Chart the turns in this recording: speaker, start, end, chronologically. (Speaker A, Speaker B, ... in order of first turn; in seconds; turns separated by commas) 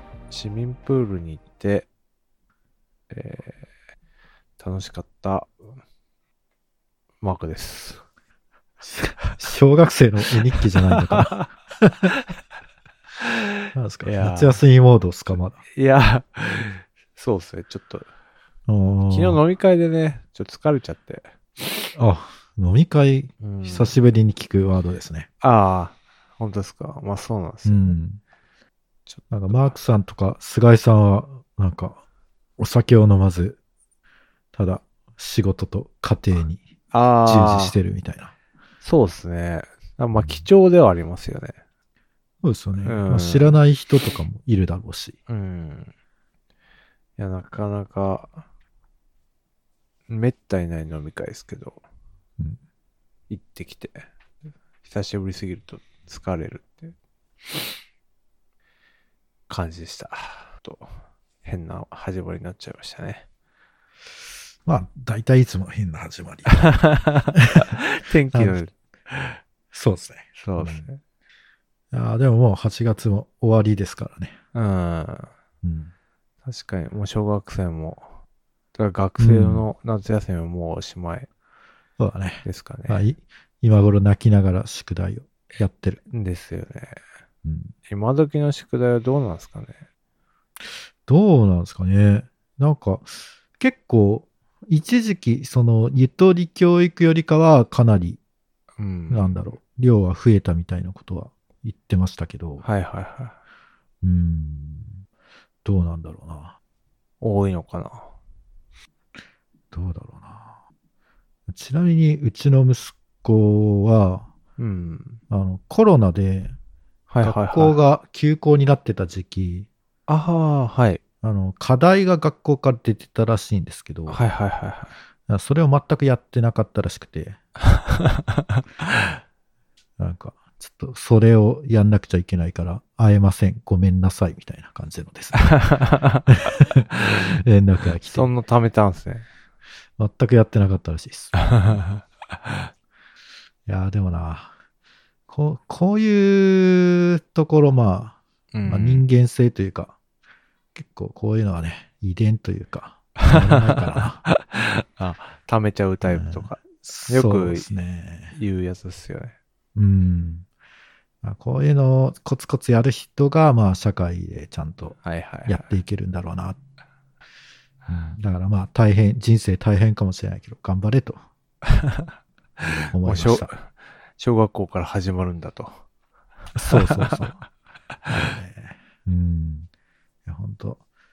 Speaker A: 0.3-1.9, Speaker A: 3.1-3.6, Speaker A: 4.6-5.5, Speaker A: 7.2-8.0, Speaker A: 8.8-9.4, Speaker B: 9.3-12.1, Speaker A: 10.6-11.5, Speaker A: 13.2-13.5, Speaker B: 13.7-15.6, Speaker A: 14.0-14.6, Speaker A: 15.7-18.1, Speaker B: 18.7-19.4, Speaker A: 19.1-21.6, Speaker B: 21.9-25.3, Speaker A: 23.4-24.0, Speaker A: 25.4-28.0, Speaker B: 27.6-28.2, Speaker A: 29.1-29.8, Speaker B: 29.3-32.0, Speaker B: 32.6-33.6, Speaker B: 34.5-36.6, Speaker A: 36.9-37.8, Speaker B: 37.2-38.3, Speaker A: 38.8-41.5, Speaker B: 42.4-45.2, Speaker A: 42.8-43.6, Speaker A: 45.3-45.9, Speaker A: 47.2-48.4, Speaker A: 50.1-51.8, Speaker A: 53.3-54.1, Speaker A: 54.8-56.9, Speaker A: 59.5-63.2, Speaker B: 64.6-66.7, Speaker A: 66.5-69.4, Speaker B: 67.4-67.7, Speaker B: 68.3-68.6, Speaker B: 69.7-70.9, Speaker A: 70.4-71.0, Speaker B: 71.9-74.3, Speaker A: 74.5-75.3, Speaker B: 75.6-75.9, Speaker A: 76.5-78.1, Speaker A: 78.7-81.3, Speaker B: 79.2-79.7, Speaker B: 82.0-86.0, Speaker A: 82.4-83.0, Speaker A: 86.1-87.0, Speaker B: 87.4-87.7, Speaker A: 87.9-89.8, Speaker B: 91.0-98.2, Speaker A: 98.8-99.4, Speaker B: 99.1-102.6, Speaker A: 102.6-103.4, Speaker B: 104.0-105.0, Speaker B: 105.6-106.5, Speaker A: 107.2-108.1, Speaker B: 109.7-110.5, Speaker B: 111.5-114.3, Speaker A: 114.6-115.2, Speaker B: 115.3-116.5, Speaker A: 117.1-117.8, Speaker B: 117.2-119.7, Speaker A: 120.1-121.0, Speaker B: 121.2-124.2, Speaker A: 124.1-124.9, Speaker B: 125.3-127.4, Speaker A: 127.6-129.2, Speaker B: 130.0-135.6, Speaker A: 135.3-136.3, Speaker B: 136.3-138.3, Speaker A: 138.0-139.3, Speaker B: 140.0-141.8, Speaker A: 141.3-142.7, Speaker B: 143.7-144.5, Speaker B: 145.3-149.9, Speaker A: 148.5-149.1, Speaker B: 150.7-154.2, Speaker A: 153.2-157.7, Speaker B: 156.0-158.3, Speaker A: 158.3-159.3, Speaker B: 159.7-160.4, Speaker B: 161.2-166.6, Speaker A: 165.0-165.8, Speaker B: 167.9-171.2, Speaker A: 171.6-172.1, Speaker A: 172.8-175.8, Speaker B: 172.9-173.5, Speaker B: 176.5-177.4, Speaker A: 176.6-177.4, Speaker B: 178.1-179.7, Speaker B: 180.2-180.8